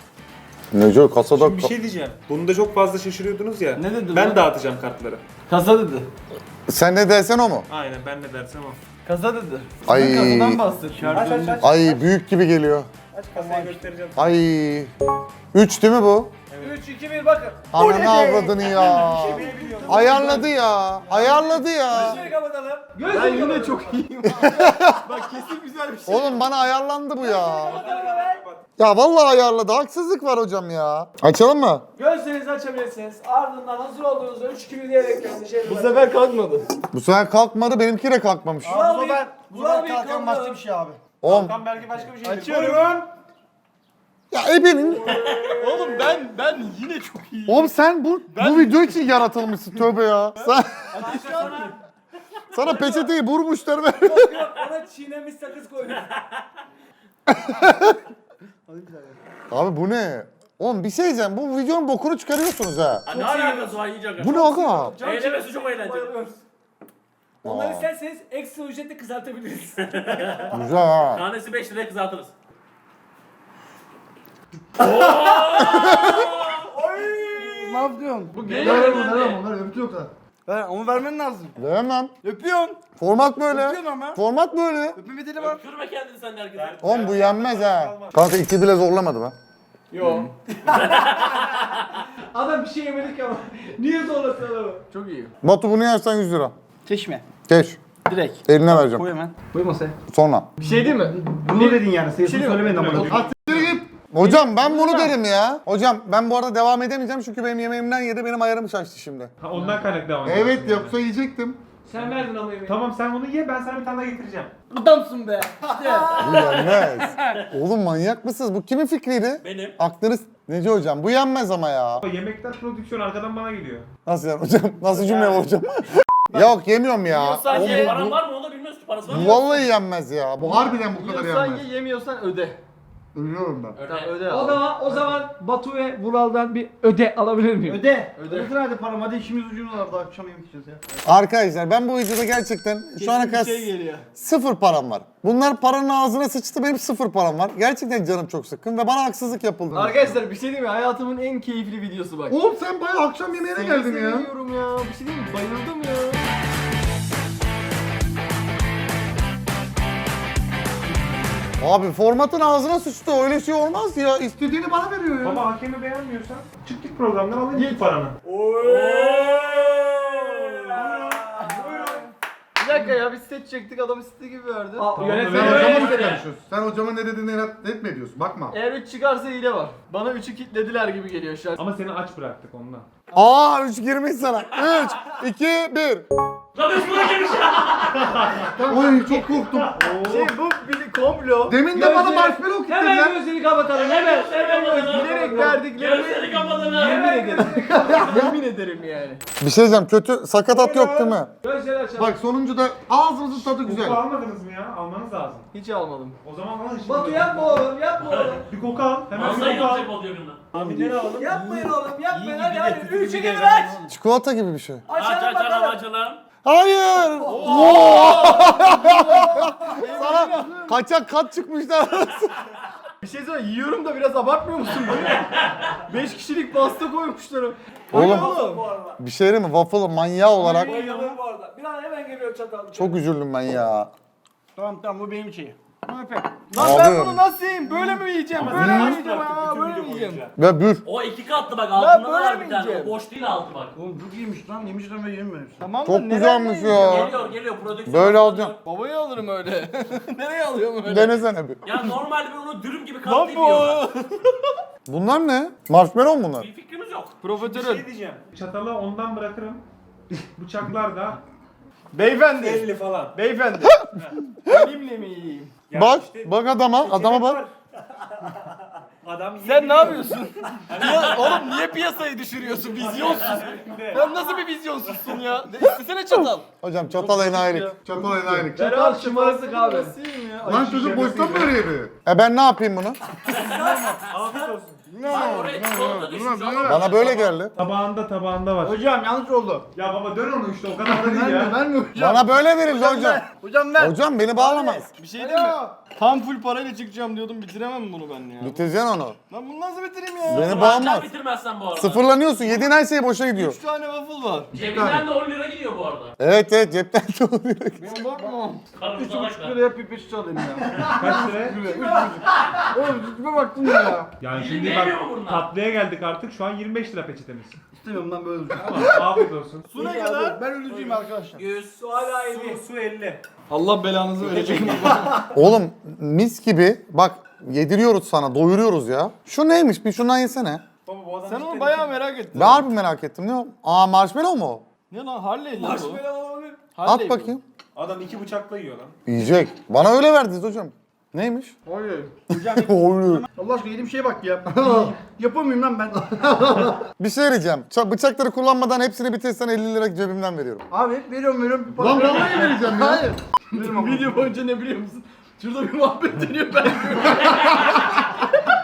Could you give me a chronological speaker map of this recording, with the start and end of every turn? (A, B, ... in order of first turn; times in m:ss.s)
0:00.7-0:01.7 A
0:01.3-0:05.2 B
0:03.8-0:04.4 C
0:05.5-0:06.1 C
0:06.7-0:07.6 A
0:07.7-0:08.8 B
0:09.0-0:11.6 C
0:09.9-0:10.6 A
0:10.9-0:12.0 B
0:11.6-0:12.9 A
0:13.1-0:14.3 B
0:13.4-0:13.7 D
0:13.4-0:13.8 C
0:14.2-0:14.9 A
0:15.5-0:16.3 A
0:16.5-0:16.8 B
0:16.6-0:17.6 D
0:17.7-0:22.2 A
0:17.9-0:18.8 E
0:18.6-0:20.4 B
0:19.4-0:20.2 C
0:19.4-0:20.4 D
0:21.0-0:22.3 C
0:21.4-0:23.9 D
0:23.1-0:26.5 C
0:24.2-0:25.1 A
0:26.0-0:27.8 A
0:27.2-0:28.4 D
0:27.7-0:28.6 B
0:28.8-0:31.8 A
0:32.0-0:36.1 D
0:35.6-0:36.6 C
0:36.9-0:38.8 A
0:38.6-0:41.0 E
0:38.6-0:40.6 D
0:41.2-0:41.6 A
0:41.2-0:43.1 B
0:42.2-0:42.7 C
0:44.3-0:45.2 A
0:45.1-0:46.1 D
0:45.5-0:47.8 C
0:47.5-0:51.0 A
0:48.3-0:49.2 C
0:50.9-0:51.7 C
0:50.9-0:51.8 D
0:52.5-0:54.5 A
0:52.6-0:53.1 D
0:54.0-0:56.1 D
0:56.0-0:56.4 F
0:57.3-0:58.0 A
0:58.7-0:59.2 E
0:59.5-1:03.0 A
1:03.0-1:06.2 F
1:03.1-1:03.8 D
1:04.2-1:05.0 A
1:04.5-1:06.4 D
1:07.4-1:07.9 A
1:07.4-1:10.4 D
1:09.9-1:10.5 F
1:10.5-1:11.2 A
1:11.1-1:12.3 F
1:14.8-1:16.7 F
1:15.6-1:16.3 A
1:16.8-1:17.7 D
1:17.4-1:21.5 E
1:18.5-1:19.4 F
1:18.5-1:19.2 D
1:18.5-1:19.0 C
1:21.6-1:22.1 A
1:22.2-1:22.6 E
1:22.5-1:22.8 C
1:23.0-1:25.0 A
1:23.5-1:24.2 E
1:25.0-1:25.6 E
1:25.4-1:26.8 F
1:26.5-1:28.3 B
1:26.8-1:29.4 A
1:29.9-1:30.3 C
1:30.7-1:31.8 F
1:30.9-1:31.5 D
1:32.3-1:34.8 D
1:34.9-1:35.3 C
1:35.4-1:36.5 A
1:36.8-1:37.2 E
1:37.5-1:37.8 A
1:38.0-1:38.6 C
1:38.5-1:39.0 A
1:38.6-1:39.5 E
1:39.4-1:39.9 C
1:40.1-1:40.5 A
1:40.6-1:42.9 C
1:40.6-1:43.4 E
1:42.7-1:43.8 B
1:43.0-1:49.3 A
1:44.2-1:45.1 C
1:49.4-1:51.0 B
1:50.2-1:51.6 A
1:51.8-1:52.8 D
1:52.7-1:54.5 B
1:54.8-1:56.2 E
1:55.5-1:56.3 D
1:56.2-1:57.4 F
1:56.2-2:02.0 A
1:59.4-1:59.8 F
2:02.0-2:03.9 B
2:04.0-2:08.2 A
2:04.9-2:05.2 C
2:06.3-2:06.6 C
2:07.1-2:07.9 C
2:07.4-2:09.4 F
2:09.1-2:11.6 A
2:10.4-2:12.6 C
2:13.1-2:13.8 A
2:13.8-2:14.3 F
2:13.9-2:15.1 C
2:14.2-2:17.8 D
2:17.6-2:20.9 E
2:18.1-2:18.6 C
2:21.0-2:30.2 A
2:23.0-2:24.0 C
2:29.7-2:32.4 C
2:32.3-2:34.3 A
2:33.5-2:36.2 C
2:41.6-2:45.4 A
2:45.2-2:48.1 B
2:47.5-2:47.9 C
2:48.4-2:48.8 C
2:48.5-2:50.9 F
2:50.4-2:51.6 C
2:51.4-2:51.9 D
2:51.6-2:52.0 B
2:52.6-2:54.9 C
2:54.8-2:56.0 D
2:54.9-2:55.7 B
2:55.2-2:58.5 A
2:55.5-2:56.2 F
2:58.5-3:01.6 C
3:01.6-3:02.9 B
3:03.1-3:06.0 A
3:06.5-3:08.2 F
3:08.6-3:09.0 E
3:08.6-3:09.8 A
3:09.0-3:09.2 D
3:09.6-3:10.3 B
3:10.0-3:11.6 C
3:11.5-3:13.2 A
3:11.7-3:15.1 D
3:13.7-3:17.0 F
3:14.4-3:19.2 C
3:15.0-3:15.5 E
3:16.7-3:18.2 D
3:18.0-3:18.4 A
3:19.4-3:21.3 A
3:20.5-3:21.2 B
3:21.4-3:22.2 D
3:22.0-3:24.0 A
3:23.5-3:25.5 B
3:25.5-3:26.2 C
3:26.2-3:27.6 B
3:26.8-3:28.5 D
3:28.0-3:28.4 F
3:28.5-3:29.9 B
3:29.1-3:30.5 F
3:30.5-3:31.5 B
3:31.1-3:33.8 D
3:32.1-3:33.2 C
3:33.2-3:33.9 E
3:33.9-3:34.8 A
3:34.9-3:35.8 D
3:35.0-3:36.2 F
3:36.4-3:42.4 A
3:37.2-3:40.6 C
3:37.4-3:38.8 E
3:39.4-3:40.8 E
3:43.0-3:45.2 C
3:45.9-3:48.6 C
3:47.9-3:48.4 A
3:47.9-3:49.0 D
3:49.0-3:50.8 A
3:50.4-3:53.0 D
3:50.7-3:51.2 C
3:52.7-3:53.9 A
3:54.5-3:55.6 E
3:55.9-4:00.3 C
3:56.6-3:57.2 A
3:58.3-4:00.3 B
3:58.5-3:59.0 A
4:00.4-4:00.8 A
4:00.8-4:03.8 F
4:01.7-4:03.0 C
4:03.8-4:05.7 E
4:05.6-4:07.3 C
4:05.8-4:07.1 A
4:06.7-4:08.6 F
4:07.9-4:08.5 A
4:08.6-4:11.2 C
4:10.8-4:11.6 A
4:11.6-4:13.9 F
4:13.0-4:14.4 C
4:14.9-4:16.5 A
4:16.4-4:17.2 F
4:17.2-4:17.9 C
4:17.3-4:19.6 B
4:20.4-4:21.2 B
4:21.9-4:23.9 C
4:22.3-4:23.2 B
4:24.4-4:25.6 C
4:25.7-4:31.5 B
4:25.7-4:27.4 A
4:29.4-4:37.5 C
4:32.6-4:34.3 B
4:36.6-4:38.6 A
4:37.0-4:38.5 E
4:38.5-4:41.0 C
4:38.6-4:39.9 D
4:40.4-4:43.0 A
4:40.5-4:41.5 B
4:43.3-4:44.5 F
4:43.4-4:44.0 E
4:44.1-4:44.8 B
4:44.9-4:47.0 E
4:45.0-4:47.3 F
4:46.6-4:47.5 A
4:47.6-4:48.8 B
4:48.6-4:49.7 E
4:49.8-4:51.6 B
4:50.8-4:55.8 E
4:52.0-4:53.2 A
4:53.8-4:54.9 A
4:54.9-4:58.7 C
4:58.4-4:59.2 A
4:59.3-5:00.9 C
5:00.2-5:01.1 A
5:00.2-5:02.0 F
5:01.7-5:03.6 A
5:02.4-5:02.8 C
5:03.4-5:04.6 C
5:04.5-5:06.1 F
5:04.6-5:05.0 E
5:06.2-5:07.8 A
5:07.8-5:08.3 E
5:07.8-5:08.6 C
5:08.8-5:09.6 F
5:08.9-5:14.1 E
5:10.8-5:12.1 D
5:10.9-5:11.6 B
5:11.7-5:12.2 C
5:14.2-5:17.5 B
5:14.3-5:15.5 F
5:17.8-5:19.1 E
5:18.5-5:19.7 B
5:19.7-5:20.4 C
5:19.7-5:21.4 E
5:20.7-5:21.7 F
5:21.7-5:22.6 D
5:22.2-5:23.2 B
5:23.5-5:25.2 C
5:24.2-5:25.0 F
5:25.2-5:30.6 A
5:30.8-5:32.0 B
5:31.2-5:32.7 C
5:32.3-5:34.6 A
5:34.9-5:36.0 C
5:35.6-5:36.6 D
5:36.7-5:37.4 C
5:36.8-5:37.4 A
5:37.8-5:38.9 B
5:39.1-5:41.5 A
5:41.7-5:42.1 C
5:42.3-5:46.8 E
5:42.3-5:43.3 A
5:47.0-5:50.6 A
5:50.7-5:54.3 E
5:51.8-5:53.1 A
5:53.5-5:58.2 C